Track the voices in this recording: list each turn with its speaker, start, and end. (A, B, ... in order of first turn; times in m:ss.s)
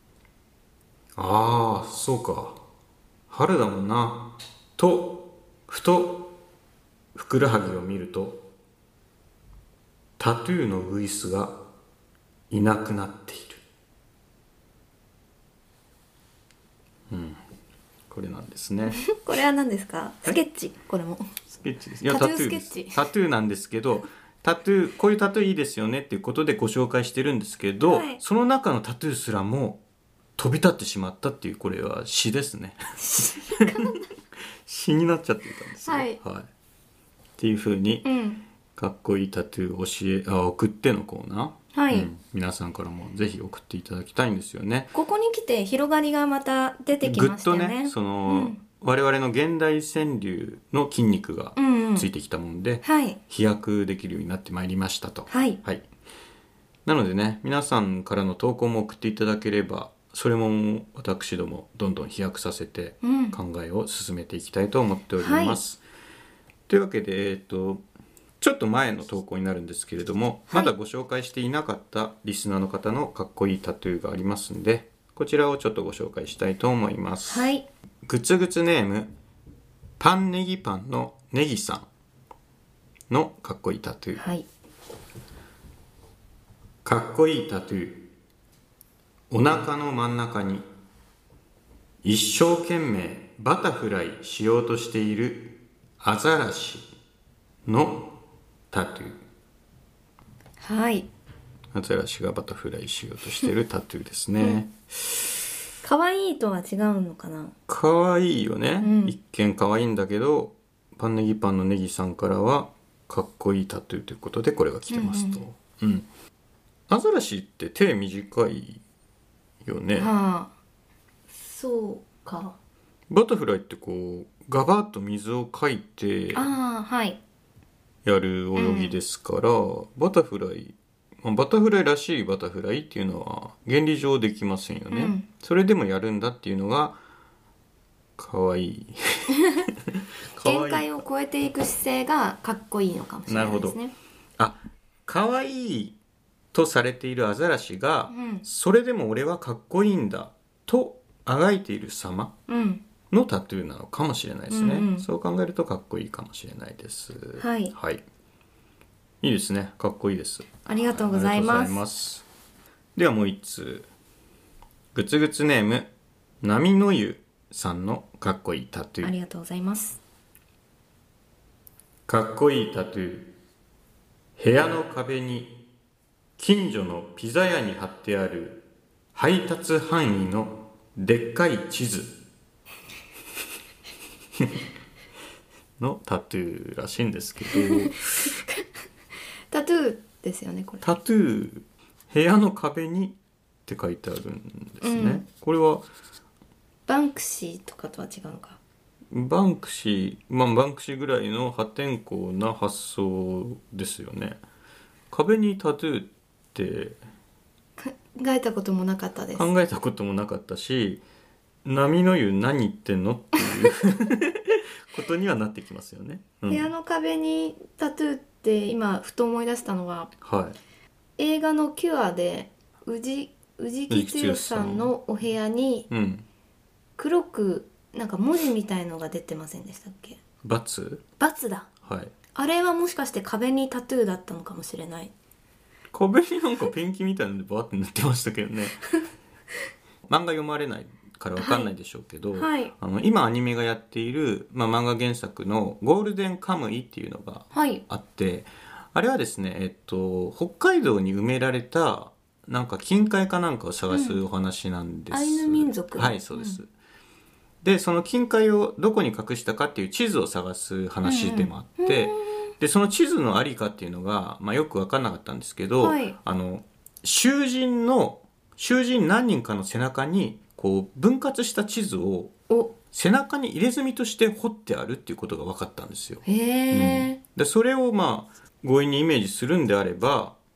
0:01.2-0:02.6 A
0:03.3-0:06.3 A
0:07.1-0:08.4 A
0:10.2-0:11.6 A
0:12.5-0:13.6 A
0:17.1-0:17.4 A
0:18.1-0:19.0 A
0:18.9-0:21.3 B
0:21.5-0:29.8 A
0:22.0-0:23.0 B
0:27.8-0:28.2 B
0:30.4-0:32.8 A
0:33.0-0:34.1 B
0:33.5-0:34.0 A
0:34.6-0:36.5 A
0:35.8-0:36.2 B
0:37.4-0:38.1 A
0:38.0-0:38.4 B
0:38.8-0:44.9 A
0:41.7-0:42.1 B
0:44.9-0:48.6 B
0:47.0-0:55.8 A
0:51.6-0:52.1 B
0:52.8-0:53.2 B
0:55.3-0:55.6 B
0:56.9-1:05.8 A
1:03.0-1:03.4 B
1:05.2-1:05.6 B
1:06.7-1:07.8 A
1:08.4-1:17.5 A
1:17.3-1:17.6 B
1:18.0-1:19.1 A
1:20.0-1:21.9 A
1:23.1-1:24.2 A
1:24.2-1:24.4 B
1:26.8-1:28.0 A
1:29.3-1:30.6 A
1:32.0-1:36.9 A
1:37.6-1:38.1 A
1:38.7-1:39.2 A
1:40.6-1:41.1 B
1:41.7-1:44.8 A
1:44.4-1:44.6 B
1:45.8-1:47.5 B
1:47.7-1:56.1 A
1:48.8-1:49.1 B
1:54.9-1:55.4 B
1:56.9-1:58.8 A
1:59.6-2:00.1 A
1:59.9-2:00.5 B
2:01.3-2:02.6 B
2:03.1-2:06.5 A
2:06.3-2:07.2 B
2:08.0-2:17.0 A
2:08.6-2:09.0 B
2:14.9-2:15.2 B
2:18.2-2:19.7 A
2:20.3-2:21.0 A
2:20.4-2:23.9 B
2:23.3-2:23.8 A
2:24.4-2:26.0 A
2:26.5-2:32.3 A
2:28.1-2:28.4 B
2:32.5-2:32.8 B
2:33.1-2:38.0 A
2:34.5-2:35.1 B
2:37.4-2:37.7 B
2:39.2-2:42.2 A
2:40.6-2:41.8 B
2:43.0-2:43.9 A
2:44.9-2:45.9 A
2:46.4-2:49.1 A
2:49.0-2:50.0 B
2:52.1-2:53.3 A
2:54.4-2:55.6 A
2:56.4-2:58.6 A
2:59.1-3:02.2 A
3:05.8-3:08.3 A
3:07.5-3:08.6 B
3:09.5-3:10.8 B
3:10.8-3:15.8 A
3:14.8-3:15.2 B
3:16.9-3:18.6 B
3:19.1-3:24.4 A
3:25.1-3:27.0 A
3:27.8-3:29.5 B
3:29.3-3:31.0 A
3:31.6-3:36.7 A
3:36.5-3:40.1 B
3:40.2-3:40.6 A
3:41.2-3:45.9 B
3:43.9-3:44.9 A
3:45.9-3:46.2 A
3:47.0-3:50.2 B
3:50.4-3:51.0 A
3:51.2-3:51.7 B
3:51.8-3:52.1 A
3:52.3-3:55.1 B
3:55.9-3:58.8 A
4:00.1-4:16.7 A
4:01.4-4:01.7 B
4:02.3-4:02.7 B
4:07.5-4:07.8 B
4:13.9-4:14.2 B
4:15.1-4:16.6 B
4:17.6-4:32.3 A
4:21.0-4:22.5 B
4:25.8-4:26.2 B
4:32.5-4:32.8 B
4:32.9-4:40.4 A
4:36.2-4:37.2 B